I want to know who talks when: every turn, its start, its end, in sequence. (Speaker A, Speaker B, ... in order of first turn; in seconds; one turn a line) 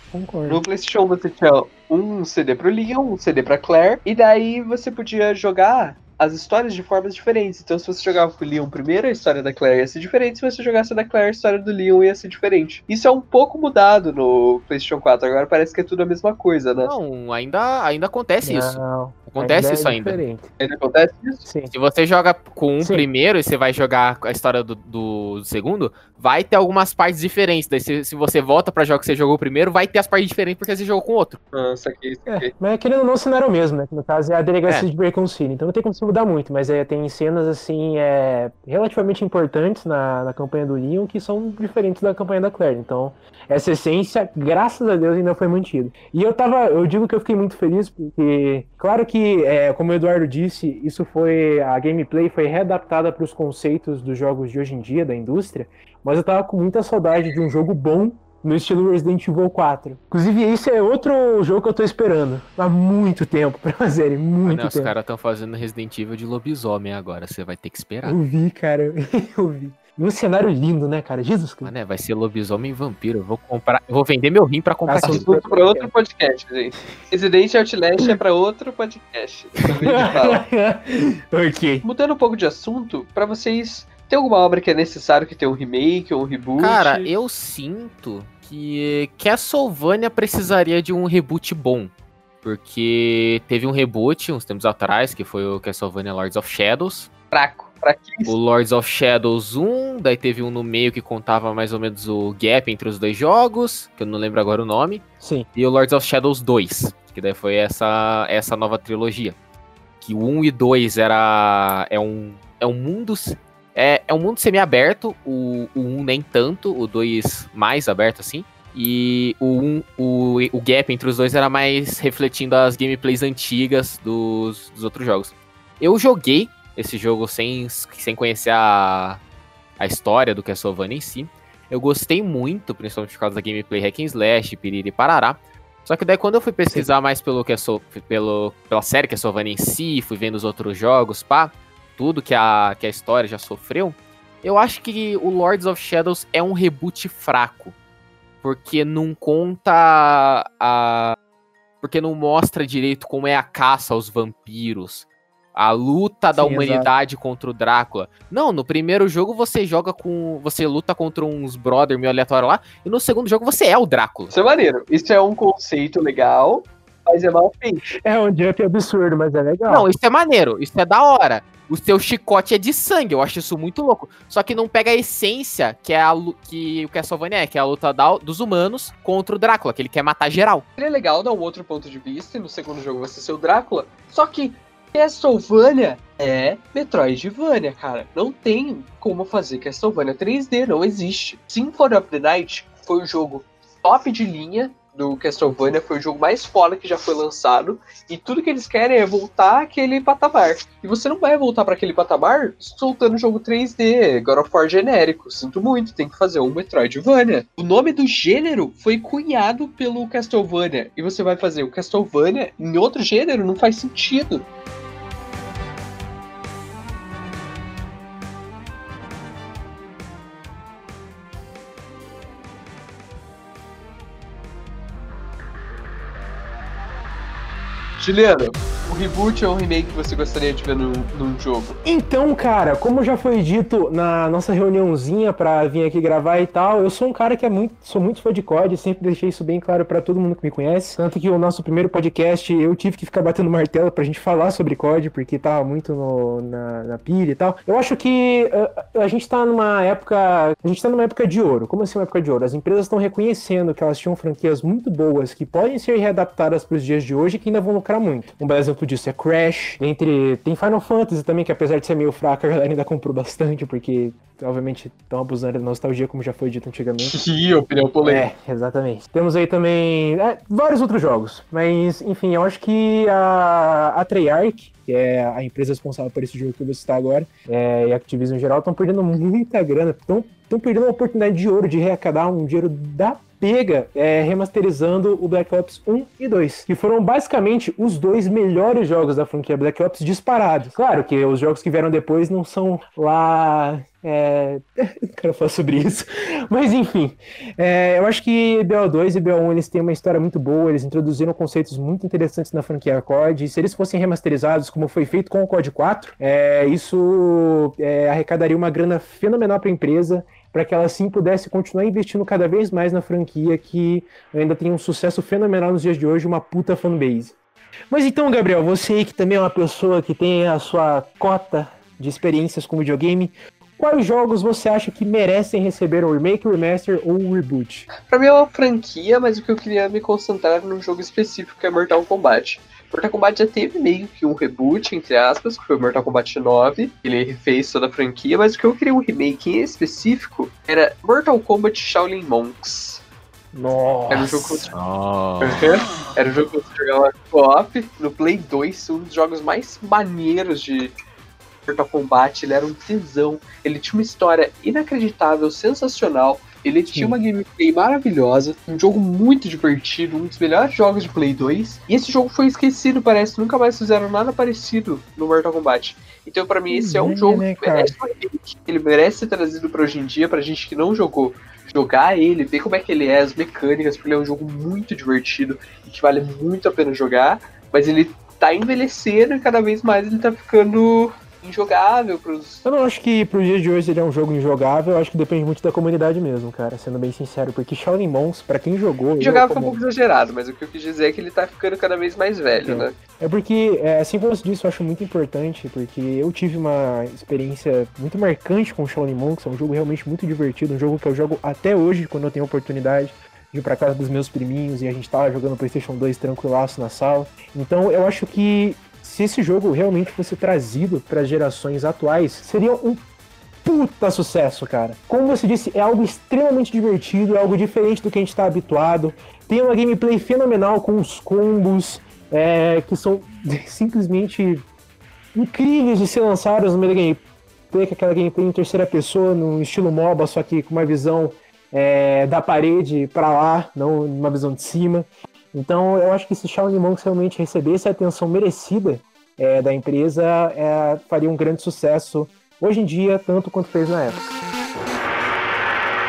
Speaker A: 0.1-0.6
Speaker B: 0.5-16.9
Speaker C: 16.8-20.2
Speaker A: 18.4-20.5
Speaker B: 20.6-21.5
Speaker A: 21.4-21.7
Speaker C: 21.7-31.4
Speaker A: 22.8-23.1
Speaker B: 31.5-32.5
Speaker A: 32.3-64.9
Speaker C: 64.5-68.2
Speaker A: 68.0-71.7
Speaker C: 71.6-75.3
Speaker A: 74.9-75.9
Speaker B: 75.0-80.4
Speaker A: 79.8-81.8
Speaker B: 81.8-87.1
Speaker C: 86.6-97.1
Speaker B: 97.3-98.4
Speaker C: 98.3-109.4
Speaker A: 105.2-105.5
Speaker C: 110.0-129.2
Speaker C: 129.8-147.8
Speaker C: 148.4-151.2
Speaker C: 151.8-164.4
Speaker A: 156.3-156.9
Speaker B: 164.3-167.8
Speaker A: 168.0-169.9
Speaker C: 169.7-180.7
Speaker B: 180.8-214.5
Speaker B: 228.0-231.8
Speaker A: 231.8-267.2
Speaker B: 267.0-268.3
Speaker A: 268.0-317.4
Speaker A: 317.9-327.9
Speaker B: 328.0-343.0
Speaker A: 343.5-344.7
Speaker B: 344.1-344.7
Speaker C: 344.7-345.6
Speaker B: 345.4-350.9
Speaker B: 351.7-382.6
Speaker A: 356.9-357.2
Speaker A: 366.7-368.0
Speaker A: 382.6-389.8
Speaker B: 389.2-392.9
Speaker A: 392.6-413.0
Speaker A: 413.6-424.7
Speaker A: 425.3-444.4